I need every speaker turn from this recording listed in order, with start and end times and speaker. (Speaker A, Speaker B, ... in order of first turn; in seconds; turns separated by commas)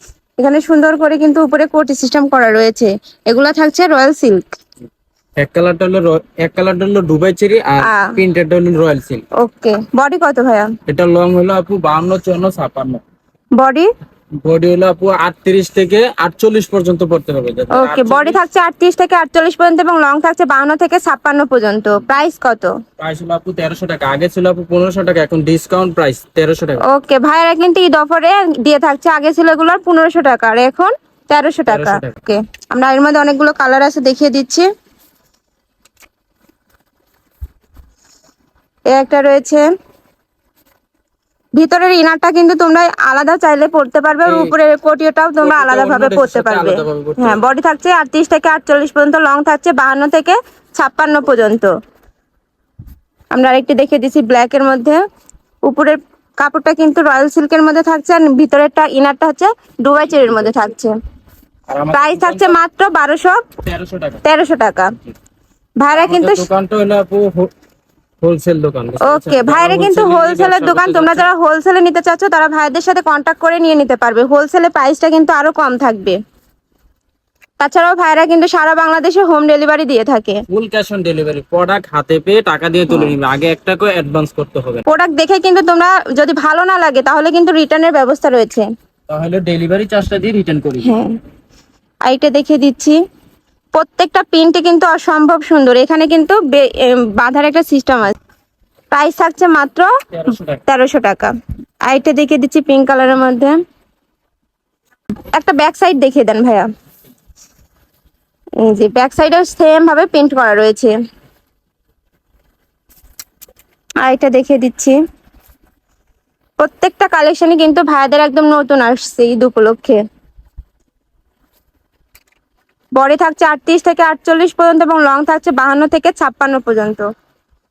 Speaker A: 0.4-4.4, Speaker B: 5.3-9.2, Speaker A: 7.8-8.2, Speaker A: 9.4-10.7, Speaker B: 10.8-13.0, Speaker A: 13.6-13.9, Speaker B: 14.4-18.4, Speaker A: 17.7-22.7, Speaker B: 23.0-26.8, Speaker A: 26.8-34.7, Speaker B: 31.7-32.2, Speaker A: 38.9-39.7, Speaker A: 41.6-51.7, Speaker B: 44.2-44.5, Speaker B: 45.4-47.4, Speaker A: 53.3-55.0, Speaker A: 55.6-60.9, Speaker B: 61.7-62.6, Speaker A: 61.9-63.5, Speaker B: 63.6-64.2, Speaker A: 64.2-65.0, Speaker A: 65.8-66.4, Speaker B: 65.9-67.5, Speaker B: 68.2-71.3, Speaker A: 69.0-76.2, Speaker A: 77.6-80.4, Speaker B: 80.5-84.8, Speaker A: 82.9-83.1, Speaker A: 84.9-88.7, Speaker B: 89.1-90.9, Speaker A: 90.8-91.1, Speaker A: 92.0-93.0, Speaker A: 93.7-98.1, Speaker A: 98.9-99.9, Speaker B: 100.1-100.6, Speaker A: 100.7-101.3, Speaker A: 101.9-103.6, Speaker A: 105.3-106.7, Speaker A: 108.6-110.9, Speaker A: 114.0-115.0, Speaker A: 116.6-120.0, Speaker A: 123.0-127.0